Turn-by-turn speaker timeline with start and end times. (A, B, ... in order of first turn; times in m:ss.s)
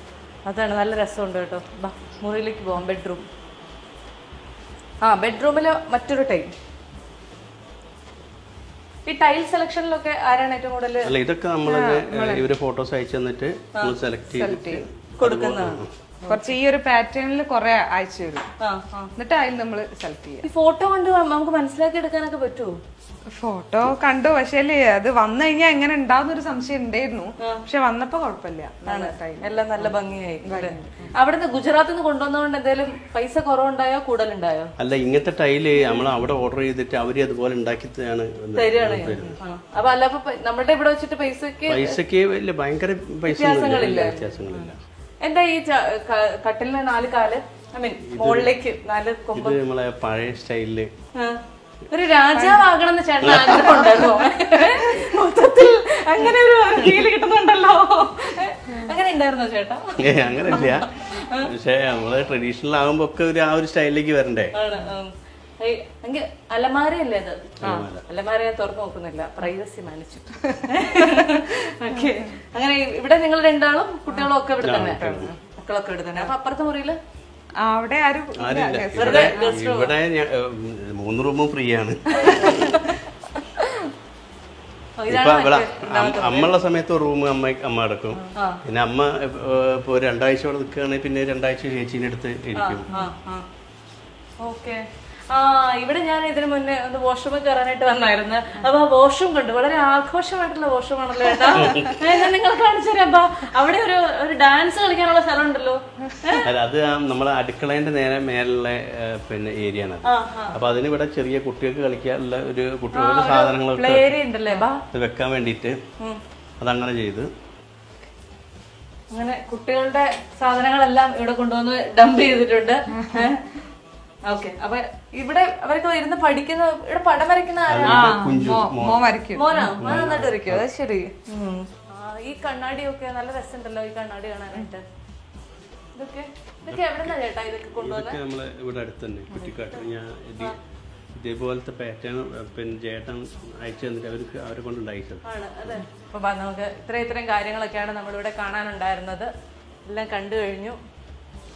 0:00.5-0:03.2 A
0:05.0-0:06.5 A
0:09.1-0:11.1 A
0:11.0-0:15.9 B
0:11.7-0:12.4 C
0:14.3-0:14.8 C
0:15.2-0:16.4 A
0:16.3-0:18.5 C
0:18.6-0:19.1 A
0:19.2-0:20.5 C
0:20.4-0:22.8 A
0:23.3-0:31.1 C
0:28.8-0:34.7 A
0:34.8-0:39.4 B
0:38.6-0:42.0 A
0:41.7-0:44.8 B
0:43.3-0:44.7 A
0:45.2-0:49.6 A
0:48.1-0:48.5 B
0:49.3-0:50.9 B
0:51.2-1:01.5 A
0:52.3-0:52.6 C
0:53.2-0:53.7 B
0:53.6-0:54.0 C
1:00.0-1:04.6 B
1:04.5-1:07.5 A
1:07.6-1:08.0 B
1:08.1-1:17.0 A
1:10.6-1:11.0 C
1:14.6-1:15.3 B
1:14.9-1:15.4 C
1:17.6-1:19.5 C
1:18.4-1:22.8 B
1:19.0-1:19.9 A
1:22.2-1:23.0 A
1:25.0-1:26.5 A
1:25.1-1:32.9 B
1:28.3-1:28.6 A
1:32.6-1:33.4 A
1:34.4-1:46.5 A
1:41.5-1:42.2 B
1:46.4-1:54.2 B
1:50.0-1:50.6 A
1:52.9-1:54.8 A
1:54.9-1:55.8 B
1:56.6-1:57.3 B
1:59.1-2:03.5 A
2:04.3-2:08.2 A
2:07.7-2:09.2 B
2:07.9-2:11.1 C
2:09.3-2:10.1 A
2:09.7-2:10.7 B
2:11.3-2:14.8 A
2:16.0-2:18.2 A
2:16.7-2:17.2 B
2:17.7-2:20.6 B
2:19.3-2:19.8 A
2:21.1-2:25.2 B
2:25.2-2:29.3 A
2:29.9-2:30.8 A